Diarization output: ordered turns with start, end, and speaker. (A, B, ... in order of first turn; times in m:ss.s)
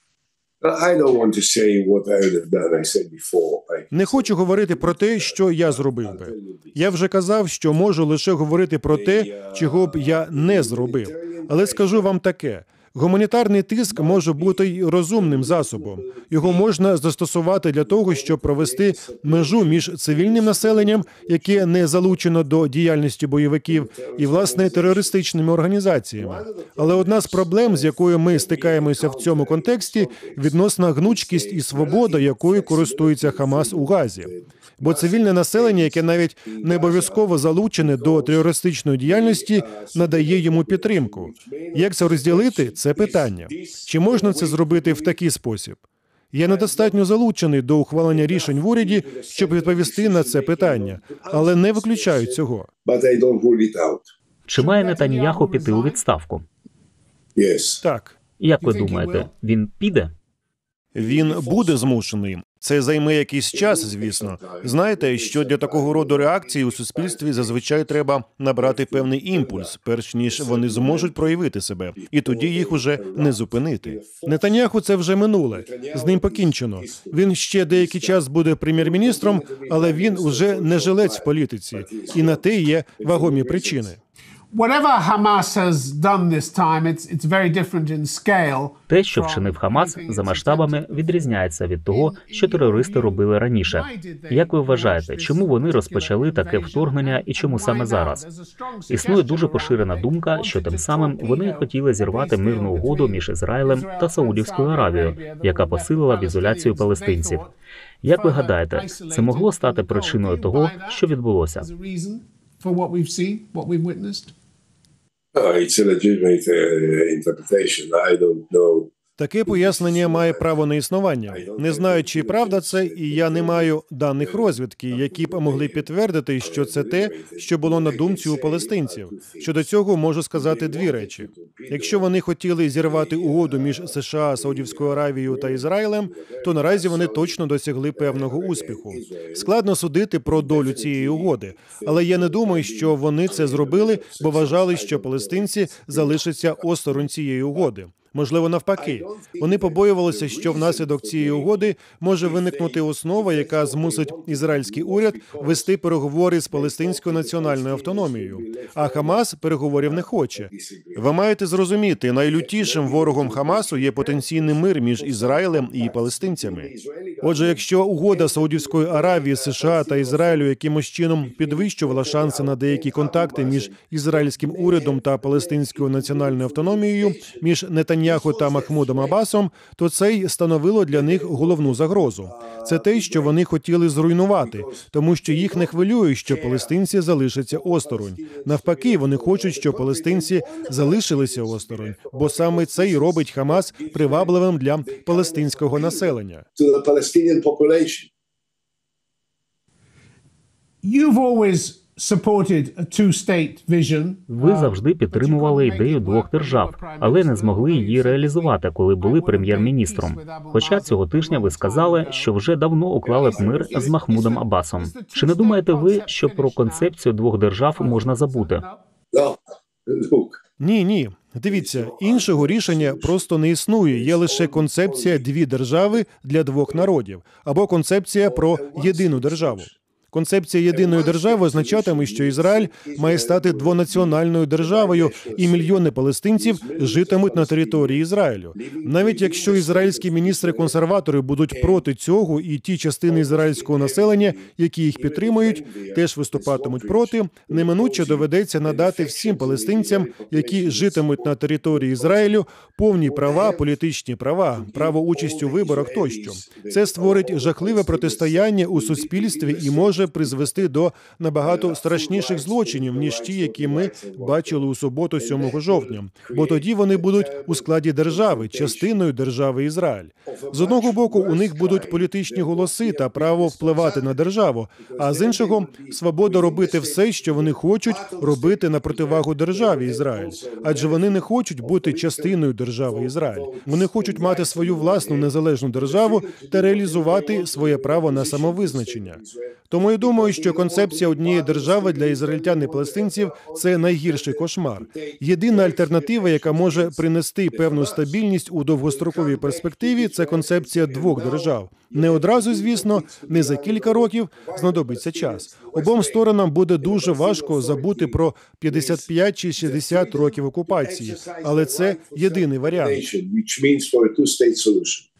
0:00.6-0:06.9 A
0:03.9-0:45.8 B
0:08.9-0:12.1 A
0:13.9-0:16.7 A
0:17.8-0:22.2 A
0:23.7-0:25.2 A
0:26.2-0:38.5 A
0:39.0-0:45.2 A
0:46.3-0:52.7 B
0:46.4-0:47.0 A
0:48.1-0:54.1 A
0:54.5-0:56.4 C
0:54.5-0:56.0 D
0:57.4-0:57.8 A
0:57.8-0:58.2 B
0:58.4-1:00.1 C
0:58.6-0:59.3 D
1:00.9-1:24.0 B
1:01.0-1:01.8 A
1:03.5-1:08.0 A
1:08.6-1:09.7 A
1:10.2-1:11.4 A
1:11.9-1:14.6 A
1:15.5-1:18.2 A
1:18.7-1:22.4 A
1:23.0-1:24.0 A
1:24.5-1:31.3 D
1:28.9-1:38.2 C
1:31.9-1:47.5 D
1:38.9-1:47.4 C
1:48.0-1:51.7 C
1:48.1-1:51.0 D
1:51.6-1:54.3 D
1:55.3-1:58.9 A
1:59.2-2:46.7 B
1:59.4-2:00.5 A
2:01.3-2:05.8 A
2:06.4-2:09.6 A
2:10.3-2:12.1 A
2:12.8-2:17.4 A
2:18.0-2:19.5 A
2:20.3-2:27.7 A
2:28.8-2:35.7 A
2:36.5-2:39.2 A
2:39.8-2:41.1 A
2:42.3-2:50.5 A
2:47.2-3:16.4 B
2:51.2-2:59.2 A
3:00.9-3:03.4 A
3:04.4-3:06.8 A
3:07.5-3:18.1 A
3:20.8-3:32.3 D
3:24.3-3:38.6 C
3:33.0-3:34.4 A
3:33.2-3:36.9 D
3:37.7-3:38.8 D
3:39.1-3:40.4 A
3:40.6-5:13.1 B
3:41.5-3:43.3 A
3:43.9-3:45.3 A
3:46.7-3:46.9 A
3:48.2-3:49.8 A
3:50.7-4:00.8 A
4:01.5-4:01.8 A
4:03.0-4:12.4 A
4:13.0-4:13.7 A
4:14.5-4:20.5 A
4:21.4-4:28.9 A
4:30.2-4:34.2 A
4:34.8-4:58.2 A
4:58.8-5:06.2 A
5:06.8-5:15.0 A